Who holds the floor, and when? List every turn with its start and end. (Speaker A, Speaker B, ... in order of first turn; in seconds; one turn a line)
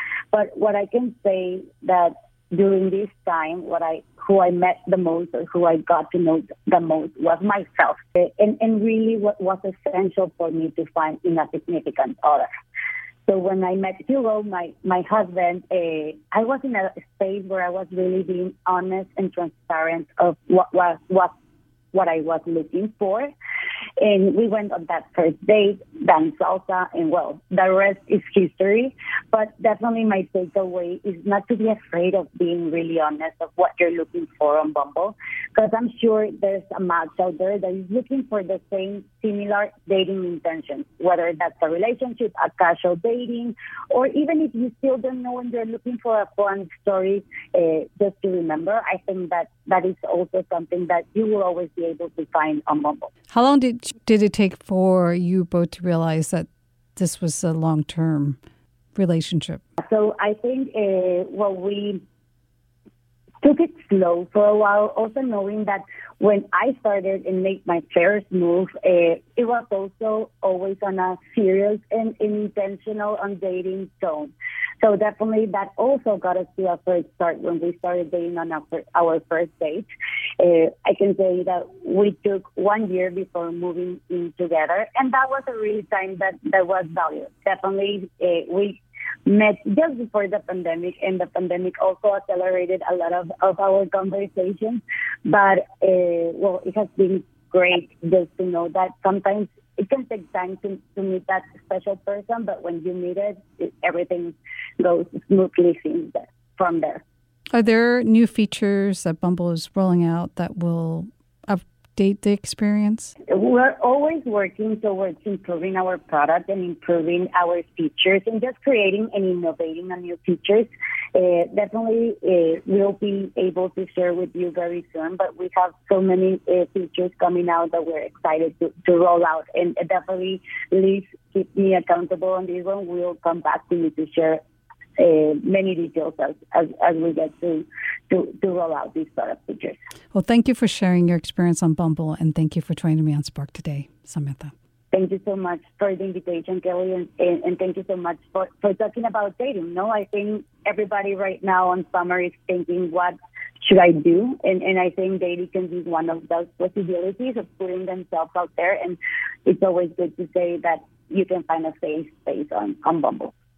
Speaker A: 0.3-12.5
Speaker A: 13.3-21.3
Speaker A: 21.9-23.3
Speaker A: 24.0-53.1
Speaker B: 53.3-58.4
Speaker B: 59.0-59.6
Speaker A: 59.8-62.0
Speaker A: 63.4-79.9
Speaker A: 80.4-107.0
Speaker B: 107.5-113.1
Speaker A: 113.3-134.4
Speaker A: 135.0-139.8
Speaker B: 140.1-144.5
Speaker A: 144.9-163.3